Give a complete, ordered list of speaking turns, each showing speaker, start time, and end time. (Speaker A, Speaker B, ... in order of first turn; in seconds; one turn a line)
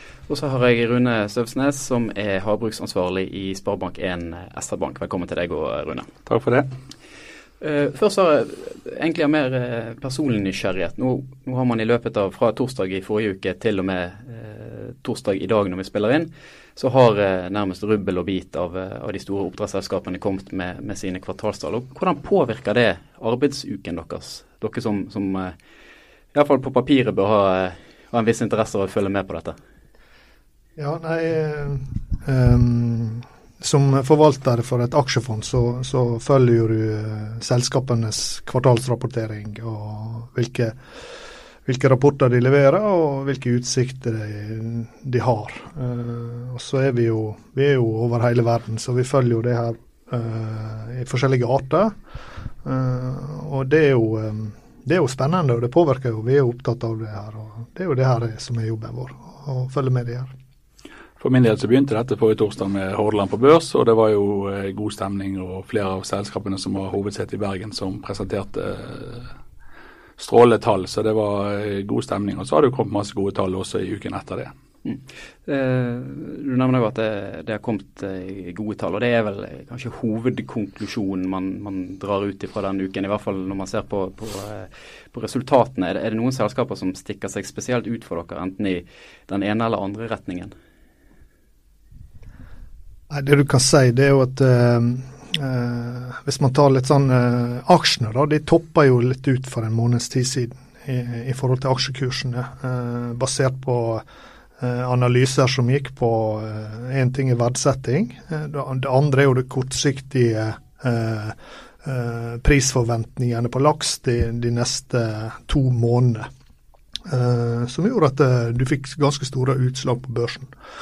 Speaker A: 0.3-6.1
Speaker B: 6.2-6.7
Speaker A: 7.6-25.5
Speaker A: 26.3-29.6
Speaker C: 30.8-40.8
Speaker C: 41.6-51.9
Speaker C: 52.6-60.3
Speaker B: 61.2-69.3
Speaker B: 70.2-74.5
Speaker A: 74.8-90.5
Speaker C: 93.1-104.0
Speaker C: 104.6-116.3
Speaker C: 117.1-120.5